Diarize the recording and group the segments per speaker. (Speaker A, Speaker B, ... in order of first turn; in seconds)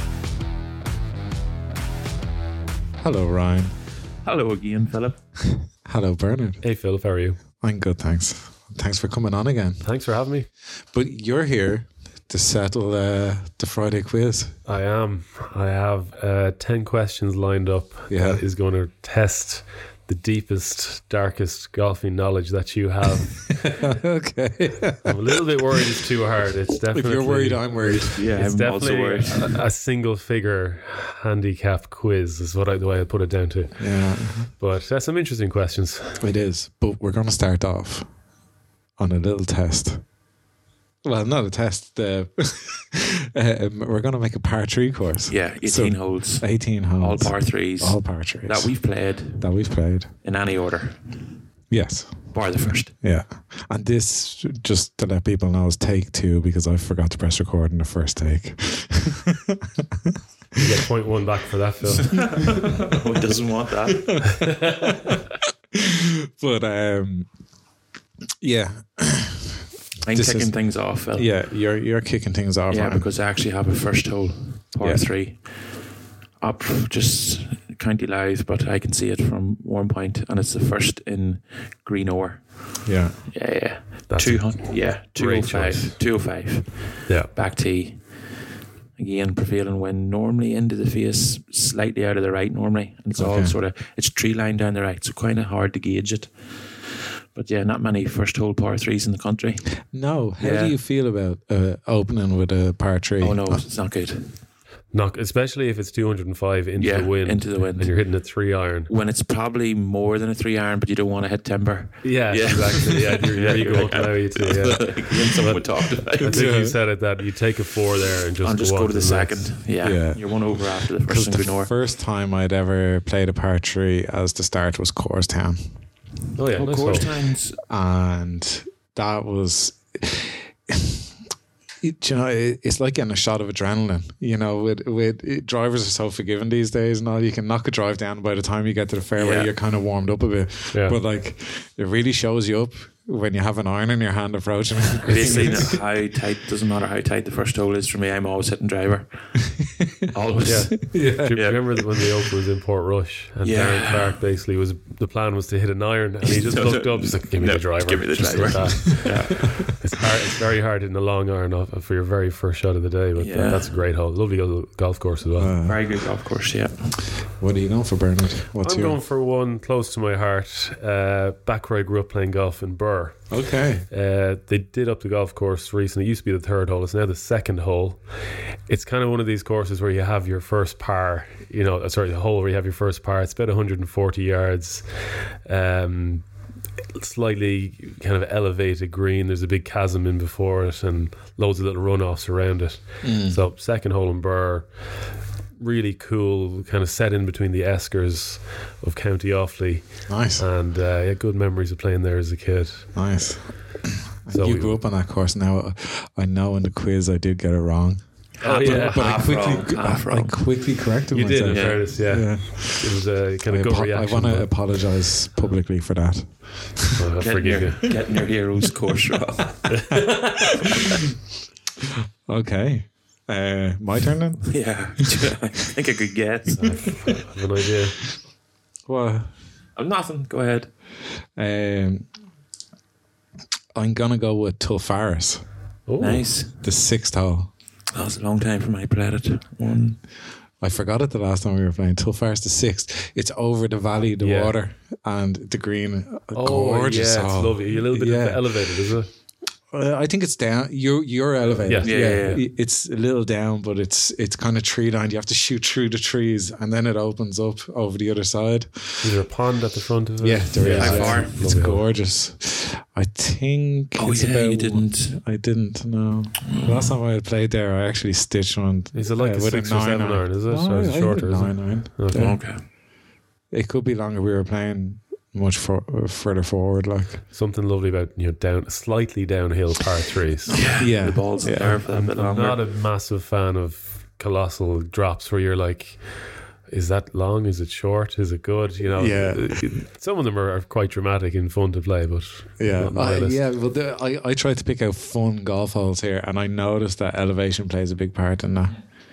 Speaker A: 3.0-3.7, 5.4-6.6, 7.6-9.8, 10.9-14.6, 18.1-18.4, 23.6-26.0, 26.9-28.3, 33.8-34.5, 36.2-38.1, 39.0-40.0, 41.0-50.1, 51.7-52.4, 53.0-60.7, 63.9-67.3, 68.4-73.1, 74.8-75.1, 82.8-83.2, 93.2-93.5, 99.8-103.6, 116.2-116.8, 119.8-125.7, 127.7-131.1, 131.8-145.8, 149.6-149.9, 150.8-151.6, 165.3-165.8, 167.4-169.0, 173.3-173.9, 193.0-193.4, 200.1-200.4, 202.9-217.0, 222.3-224.9, 228.8-229.3, 231.3-232.1, 233.7-235.4, 236.6-237.5, 240.6-248.9, 249.7-259.2, 260.2-272.4, 273.5-277.2, 280.7-281.8, 288.9-289.8, 292.6-298.9
Speaker B: 4.2-5.2, 27.8-29.6, 45.3-49.5, 50.2-51.2, 52.3-52.9, 62.3-64.2, 70.0-71.3, 72.7-75.5, 76.4-88.3, 89.0-96.3, 97.3-99.7, 100.4-100.8, 103.2-104.4, 106.8-108.0, 108.9-116.5, 118.4-121.7, 126.5-127.6, 139.2-139.5, 145.0-149.3, 150.1-151.6, 153.4-154.2, 156.2-159.7, 163.2-163.7, 165.6-166.8, 208.4-210.4, 211.4-211.8, 217.2-219.9, 220.6-221.0, 224.5-226.9, 229.8-230.7, 236.0-236.6, 237.9-240.0, 251.8-252.4, 260.6-261.3, 264.0-265.2, 266.4-266.9, 272.1-272.6, 280.5-282.6
Speaker C: 6.6-7.4, 9.8-10.5, 14.7-23.8, 25.0-36.2, 60.6-62.5, 64.4-64.9, 84.1-86.0, 104.9-108.9, 112.0-119.5, 126.3-127.2, 140.7-141.0, 150.4-165.5, 168.6-173.4, 173.9-178.1, 178.7-186.2, 186.9-194.7, 195.6-202.9, 204.3-204.8, 208.4-209.4, 211.1-214.7, 216.9-217.9, 219.7-220.6, 226.5-228.1, 235.9-236.2, 244.2-244.5, 246.3-249.1, 251.7-252.4, 259.0-261.8, 268.9-272.4, 277.3-280.8, 281.5-286.1, 286.6-293.4